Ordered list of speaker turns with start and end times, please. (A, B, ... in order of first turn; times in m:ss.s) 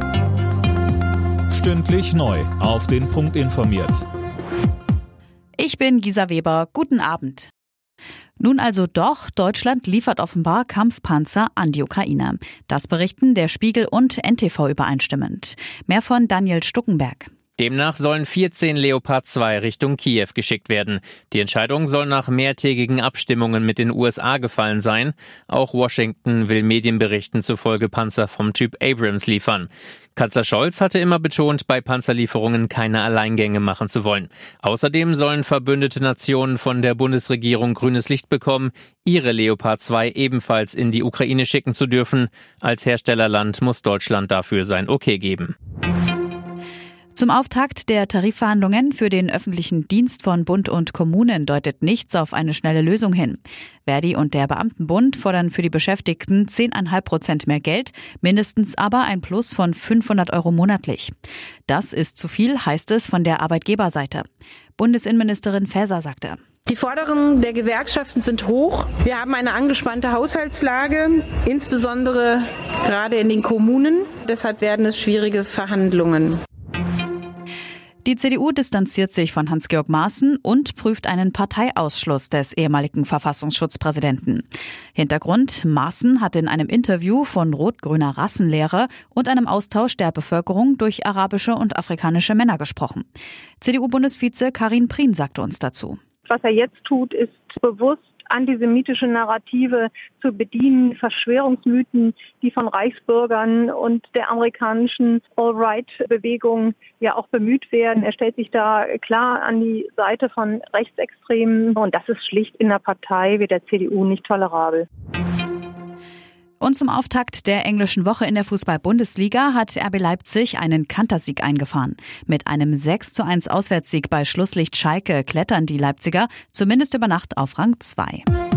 0:01.5-0:04.0 A
0:05.6-0:07.5 B
0:08.4-0:17.3 B
0:17.6-0:45.5 C
0:47.1-1:01.1 B
1:01.7-1:04.2 B
1:04.8-1:06.4 B
1:06.6-1:16.4 D
1:18.0-1:33.0 B
1:33.6-1:36.0 B
1:36.2-1:54.9 E
1:56.6-2:08.2 B